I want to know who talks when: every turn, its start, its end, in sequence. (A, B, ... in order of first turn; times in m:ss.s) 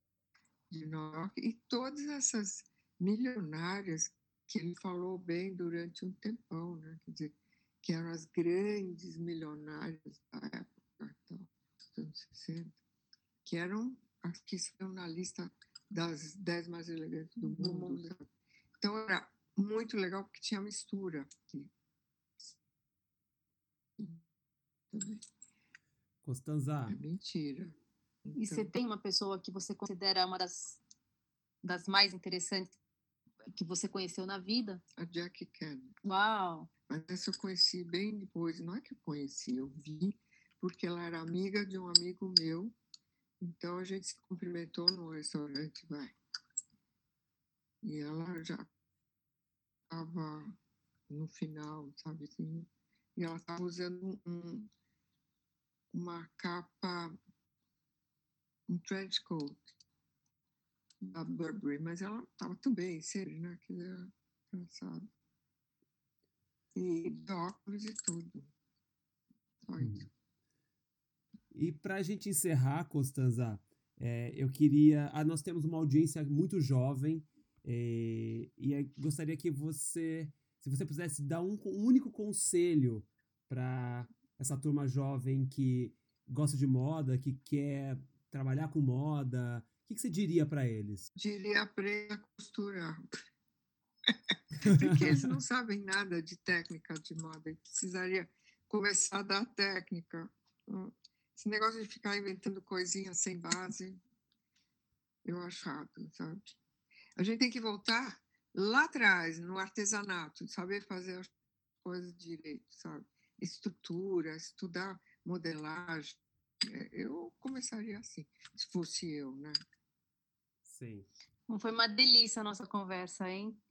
0:00.7-0:12.8 A
0:13.4-0:18.3 A
0:17.4-0:18.1 B
0:18.8-0:21.7 A
0:24.9-0:25.2 A
0:26.2-0:27.0 C
0:26.9-0:28.7 A
0:28.4-0:30.8 B
0:31.6-0:32.8 B
0:33.5-0:34.8 B
0:35.0-0:35.9 A
0:36.0-0:36.7 B
0:36.9-0:42.7 A
0:43.4-0:46.1 A
0:47.8-0:48.7 A
0:49.9-0:50.5 A
0:51.1-0:54.7 A
0:55.9-0:57.2 A
0:58.7-0:59.6 A
1:01.0-1:05.1 A
1:06.7-1:08.5 A
1:09.6-1:10.1 A
1:09.8-1:10.1 C
1:11.5-1:31.1 C
1:31.1-1:33.1 A
1:34.0-1:44.0 A
1:34.6-1:35.3 C
1:45.2-1:46.6 A
1:47.2-1:59.6 A
2:00.6-2:01.1 C
2:01.5-2:03.6 B